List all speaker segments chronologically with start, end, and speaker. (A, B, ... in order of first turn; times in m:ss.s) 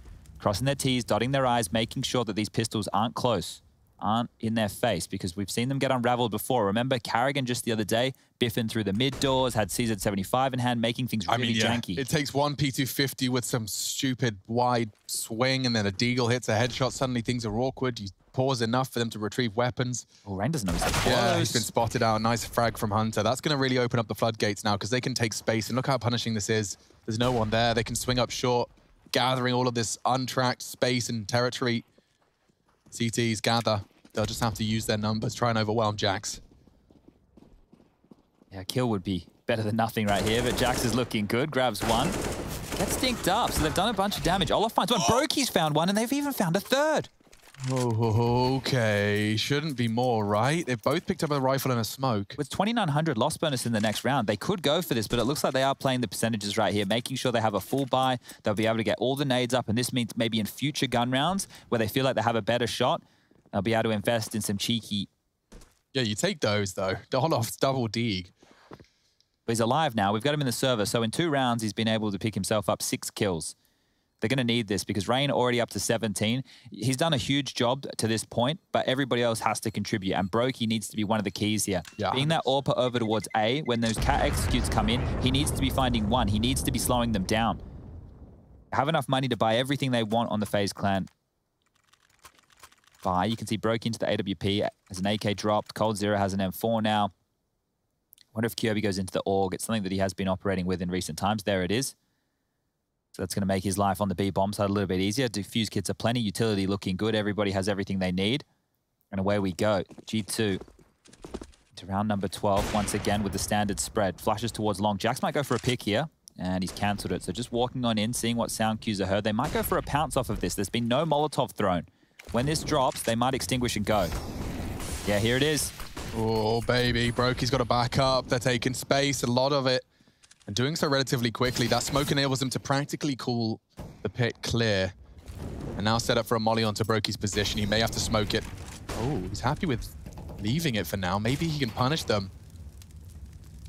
0:00.4-0:12.0 A
0:11.3-0:20.1 B
0:20.2-0:21.7 A
0:21.0-0:31.8 B
0:32.9-0:36.4 B
0:38.5-0:42.2 A
0:42.8-0:47.1 A
0:47.6-0:52.4 B
0:52.4-1:03.0 A
1:03.5-1:05.1 A
1:05.9-1:08.3 B
1:09.5-1:13.5 A
1:14.2-1:27.6 A
1:22.0-1:22.4 B
1:28.7-1:31.1 A
1:33.0-1:37.1 A
1:38.3-1:41.9 A
1:43.1-1:48.4 A
1:49.1-1:50.6 A
1:51.7-2:04.1 A
2:05.0-2:05.7 A
2:06.1-2:09.8 B
2:10.5-2:14.9 B
2:15.8-2:22.3 B